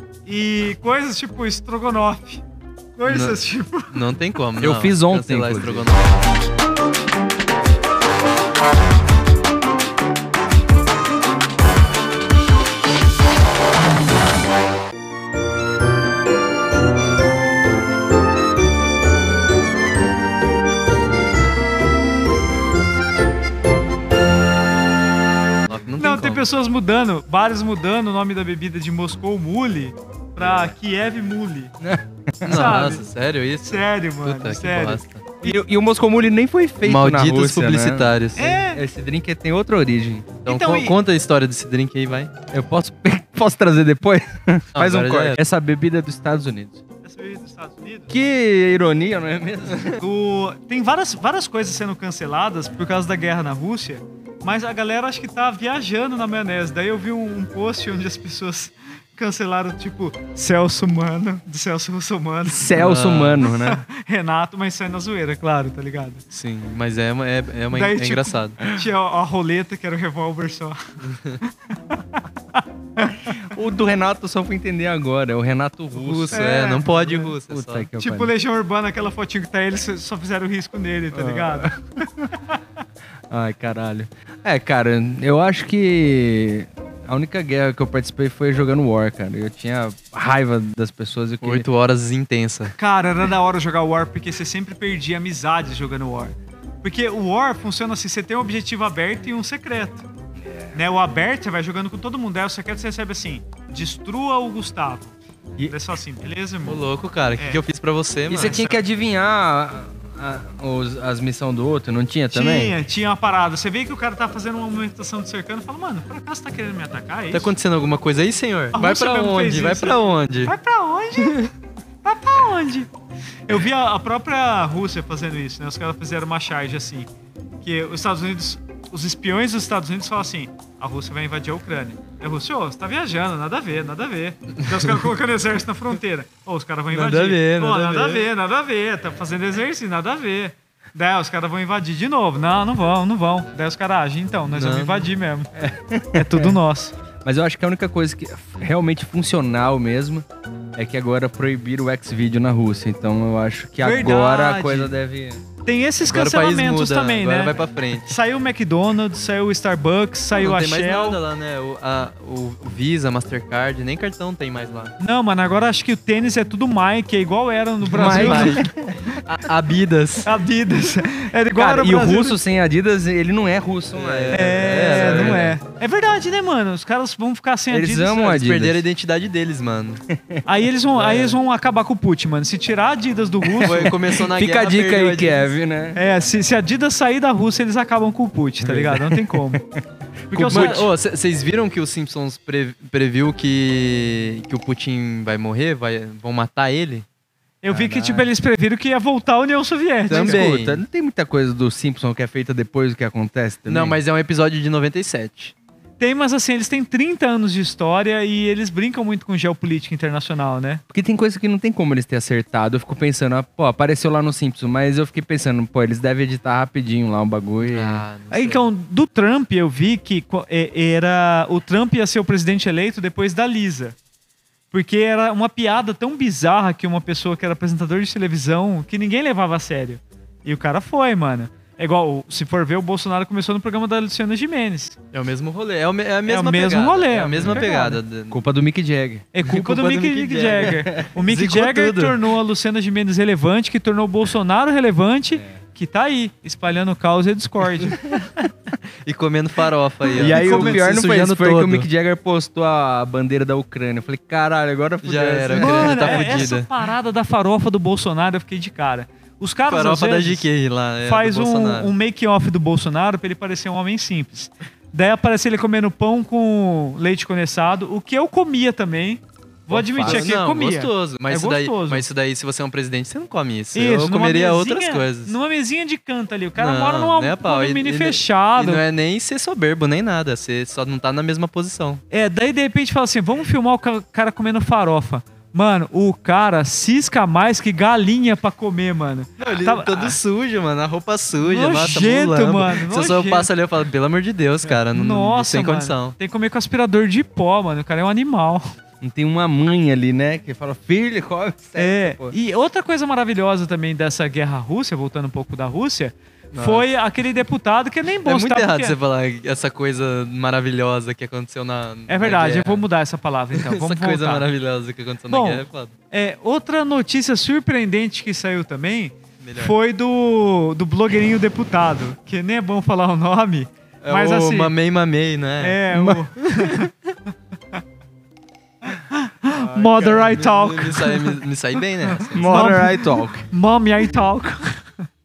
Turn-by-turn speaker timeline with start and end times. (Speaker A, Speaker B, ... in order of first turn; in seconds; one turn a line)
Speaker A: 0.2-2.4
Speaker A: 3.0-4.0
Speaker B: 3.0-6.2
Speaker C: 4.6-5.9
Speaker B: 25.7-26.4
Speaker A: 26.0-31.7
Speaker C: 31.8-32.8
Speaker B: 32.4-35.3
Speaker A: 32.5-33.1
Speaker A: 33.6-35.5
Speaker C: 35.4-40.4
Speaker B: 36.8-38.5
Speaker A: 38.4-38.8
Speaker B: 40.4-42.3
Speaker A: 40.4-41.0
Speaker C: 42.5-46.8
Speaker B: 44.7-45.4
Speaker A: 47.0-48.1
Speaker C: 48.1-50.0
Speaker A: 50.0-66.2
Speaker C: 62.5-63.8
Speaker B: 62.8-63.5
Speaker B: 66.3-68.6
Speaker A: 67.7-70.8
Speaker B: 71.0-71.4
Speaker A: 71.4-73.5
Speaker C: 73.2-76.4
Speaker B: 75.9-77.9
Speaker A: 76.3-77.3
Speaker C: 77.5-78.3
Speaker A: 78.0-81.7
Speaker C: 81.1-82.3
Speaker C: 83.3-91.7
Speaker B: 91.4-92.7
Speaker A: 92.8-100.0
Speaker C: 100.4-100.8
Speaker A: 100.7-105.1
Speaker A: 105.7-106.8
Speaker B: 106.6-108.6
Speaker A: 107.3-107.6
Speaker C: 108.3-112.7
Speaker A: 108.4-108.8
Speaker A: 112.3-117.5
Speaker B: 117.3-120.5
Speaker A: 118.7-121.4
Speaker B: 121.2-121.5
Speaker A: 122.0-122.9
Speaker A: 123.5-127.1
Speaker A: 127.6-145.5
Speaker B: 136.9-138.2
Speaker B: 144.5-145.1
Speaker C: 145.6-146.6
Speaker A: 146.1-146.9
Speaker C: 147.2-150.2
Speaker C: 150.8-155.4
Speaker A: 153.8-154.9
Speaker A: 155.6-161.2
Speaker B: 156.0-158.2
Speaker B: 160.3-164.9
Speaker A: 165.0-168.7
Speaker C: 167.8-169.0
Speaker B: 167.9-168.7
Speaker B: 169.2-170.3
Speaker A: 170.2-172.4
Speaker C: 171.5-175.4
Speaker B: 173.9-175.6
Speaker A: 174.3-178.4
Speaker C: 177.7-178.8
Speaker B: 178.2-180.0
Speaker C: 180.1-180.4
Speaker A: 180.4-184.0
Speaker B: 180.9-181.4
Speaker C: 183.5-186.0
Speaker B: 183.6-185.5
Speaker A: 185.9-189.6
Speaker C: 188.6-189.8
Speaker C: 190.3-190.9
Speaker A: 190.3-190.9
Speaker B: 190.5-197.0
Speaker A: 197.6-200.4
Speaker B: 197.7-198.2
Speaker B: 200.1-200.8
Speaker C: 200.1-204.0
Speaker B: 203.7-205.5
Speaker A: 206.0-210.8
Speaker C: 210.9-218.0
Speaker B: 217.6-218.6
Speaker A: 218.3-223.9
Speaker A: 224.7-235.0
Speaker B: 235.1-238.4
Speaker A: 236.2-238.0
Speaker C: 237.3-237.7
Speaker C: 238.3-239.3
Speaker A: 239.3-248.1
Speaker B: 239.4-242.2
Speaker B: 249.0-251.9
Speaker C: 250.2-256.5
Speaker A: 250.2-250.8
Speaker B: 255.0-256.7
Speaker A: 255.6-260.5
Speaker B: 259.7-261.9
Speaker A: 261.0-272.1
Speaker B: 269.7-275.4
Speaker C: 269.7-270.3
Speaker A: 273.7-278.8
Speaker B: 276.6-282.0
Speaker A: 282.1-290.2
Speaker B: 289.4-296.1
Speaker A: 291.4-293.5
Speaker A: 294.9-298.6
Speaker C: 299.0-302.4
Speaker A: 301.8-309.0
Speaker B: 306.5-306.9
Speaker B: 308.2-312.9
Speaker A: 312.1-314.5
Speaker B: 313.5-315.9
Speaker A: 315.3-324.7
Speaker B: 319.4-319.8
Speaker B: 324.0-325.8
Speaker A: 325.6-326.9
Speaker C: 325.9-326.7
Speaker A: 328.9-331.4
Speaker C: 329.7-330.2
Speaker B: 330.0-332.7
Speaker A: 332.1-334.8
Speaker C: 332.3-333.5